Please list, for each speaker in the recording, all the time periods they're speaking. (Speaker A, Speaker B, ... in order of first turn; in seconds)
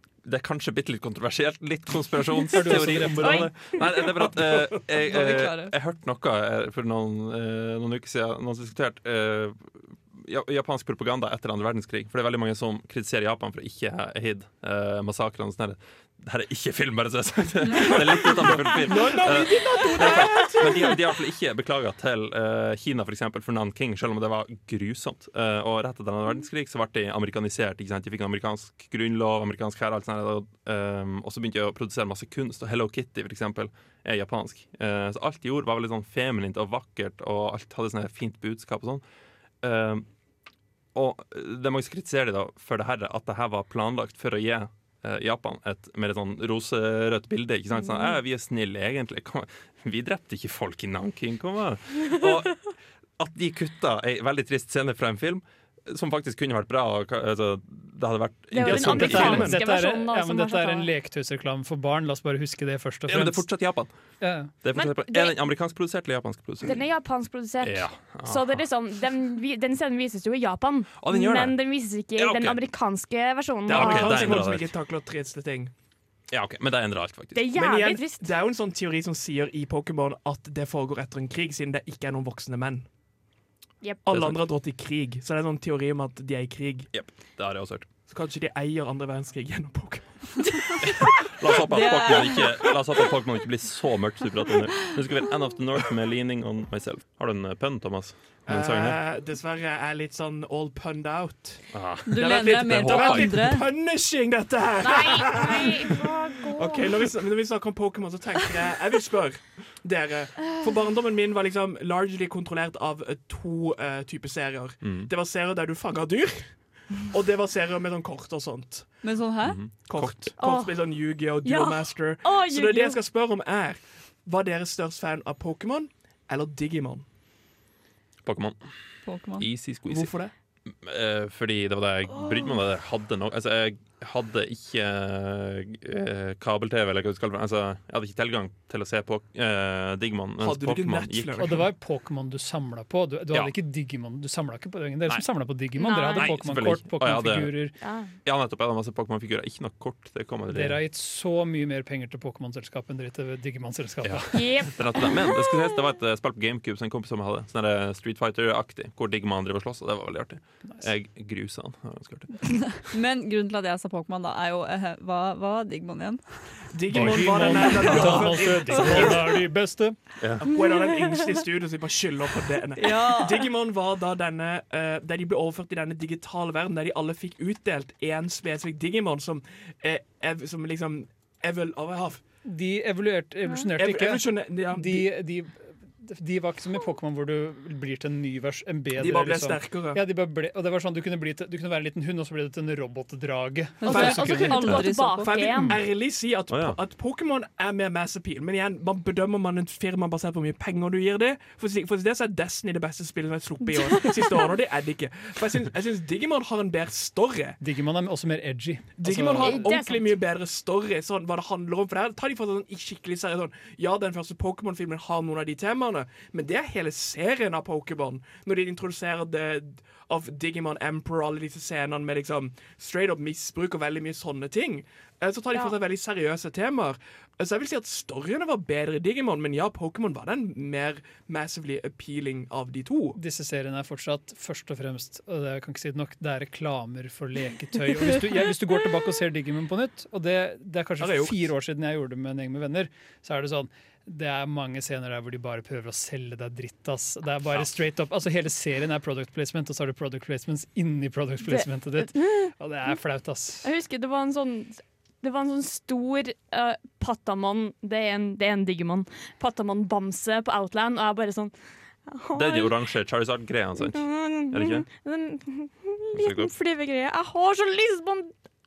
Speaker A: 0.2-39.0, 39.6-40.1, 41.0-52.7, 53.2-59.6, 63.1-63.9, 64.6-66.8, 67.6-68.6, 71.0-71.6, 72.2-72.6, 73.7-74.7, 76.3-77.5, 84.1-84.4, 86.9-87.9, 91.0-99.0, 101.7-103.5, 114.8-115.1, 119.4-120.3, 128.2-128.6, 129.4-130.1, 130.8-141.5, 146.2-147.5, 148.2-150.8, 154.0-162.8, 166.9-167.5, 170.2-170.5, 196.5-196.8, 262.3-264.9, 266.1-266.5
Speaker B: 2.5-3.5, 58.7-63.5, 64.2-64.5, 141.4-147.7, 150.5-154.5, 166.9-170.0, 182.4-194.9, 207.6-209.7, 233.2-253.7
Speaker C: 3.2-3.8, 58.5-60.9, 64.7-65.4, 66.6-74.5, 77.3-78.3, 104.8-107.0, 120.4-120.8, 121.4-123.0, 145.8-146.4, 147.8-148.1, 154.3-155.4, 170.6-171.2, 193.9-195.8, 209.4-210.1, 251.4-253.0, 253.6-261.5, 262.1-262.8, 263.8-268.3
Speaker D: 5.1-5.7, 91.7-92.4, 102.1-103.7, 119.0-119.6, 129.1-129.5, 162.8-166.2, 172.8-173.4, 193.8-195.4
Speaker E: 18.2-21.0, 58.7-59.5, 73.7-75.7, 77.5-82.9, 84.1-86.9, 88.1-90.8, 98.5-101.6, 102.2-118.9, 119.9-127.0, 129.9-130.3, 140.4-141.7, 166.7-169.4, 170.4-182.2, 183.8-185.1, 188.9-190.0, 193.9-194.6, 195.2-207.6, 209.0-233.2, 241.0-241.4